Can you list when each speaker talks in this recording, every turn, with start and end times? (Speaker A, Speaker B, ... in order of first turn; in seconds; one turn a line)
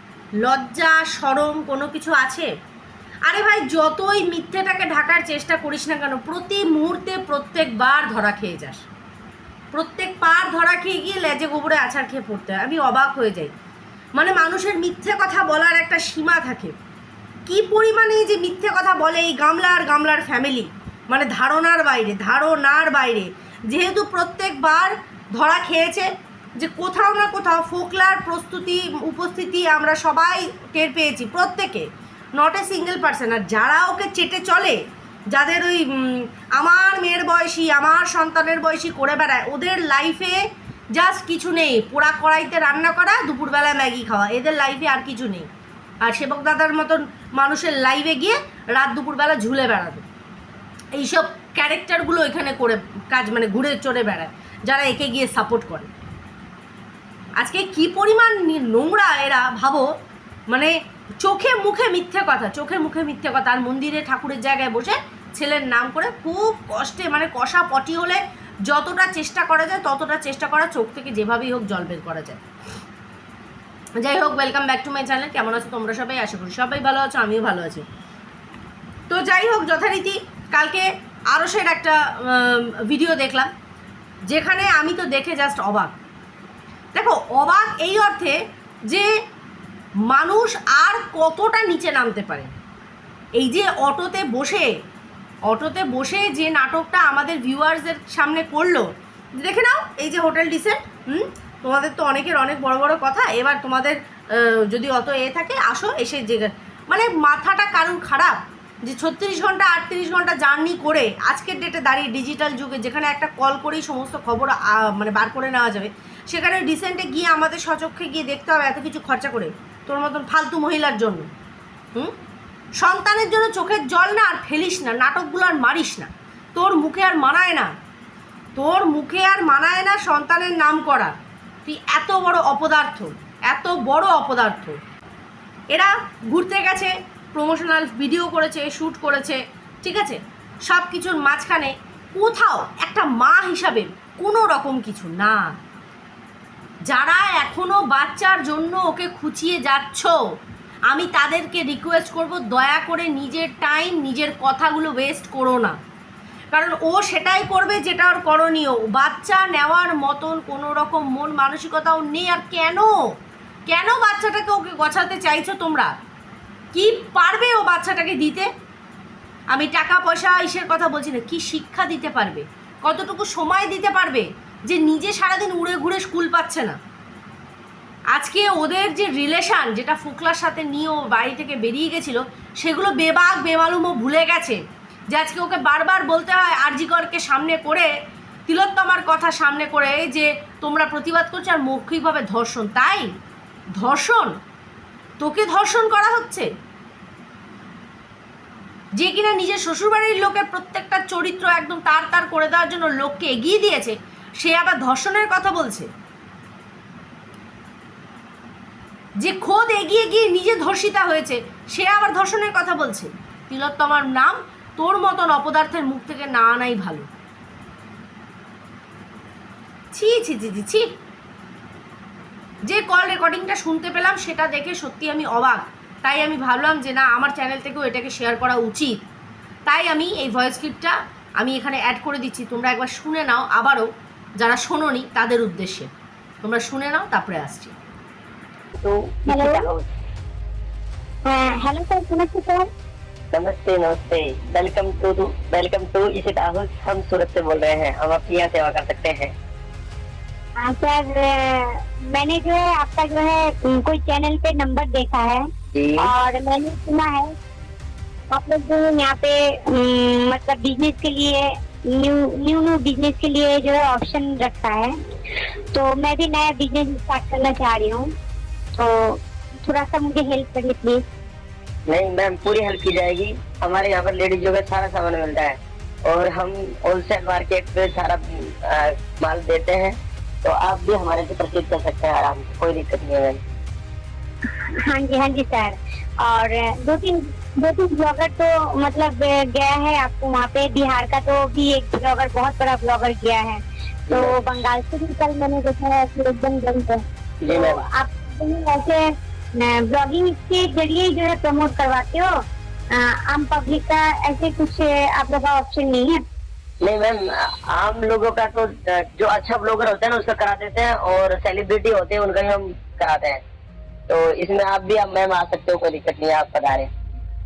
Speaker A: 0.4-2.5
Speaker A: 3.3-8.8
Speaker A: 9.7-13.5
Speaker A: 14.2-16.8
Speaker A: 17.5-34.8
Speaker A: 35.3-40.4
Speaker A: 41.0-45.5
Speaker A: 46.0-50.0
Speaker A: 51.0-55.9
Speaker A: 57.4-59.9
Speaker A: 60.5-72.4
Speaker A: 74.0-77.9
Speaker A: 79.1-83.5
Speaker A: 84.3-85.9
Speaker A: 87.0-89.1
Speaker A: 90.1-92.5
Speaker A: 93.4-94.7
Speaker A: 95.5-121.3
Speaker A: 122.8-127.7
Speaker A: 128.6-134.8
Speaker A: 135.7-145.5
Speaker A: 146.9-150.2
Speaker A: 150.9-155.8
Speaker A: 156.5-162.9
Speaker A: 163.7-165.9
Speaker A: 166.7-168.5
Speaker A: 169.5-176.8
Speaker A: 178.1-184.6
Speaker A: 185.1-187.9
Speaker A: 188.5-193.1
Speaker A: 193.8-194.3
Speaker A: 195.2-196.5
Speaker A: 199.0-205.9
Speaker A: 209.2-217.1
Speaker A: 219.9-220.9
Speaker A: 222.7-229.0
Speaker A: 229.7-235.9
Speaker A: 236.4-237.7
Speaker B: 238.8-239.9
Speaker C: 239.3-239.7
Speaker C: 241.3-242.7
Speaker B: 243.3-249.3
Speaker C: 250.6-255.5
Speaker B: 255.7-256.1
Speaker C: 256.0-257.3
Speaker C: 258.3-264.9
Speaker C: 265.7-268.1
Speaker C: 268.8-271.1
Speaker B: 271.9-283.4
Speaker C: 284.9-299.1
Speaker B: 294.1-294.3
Speaker B: 297.4-297.8
Speaker C: 299.6-302.3
Speaker C: 302.9-306.2
Speaker B: 306.8-313.4
Speaker B: 314.1-316.9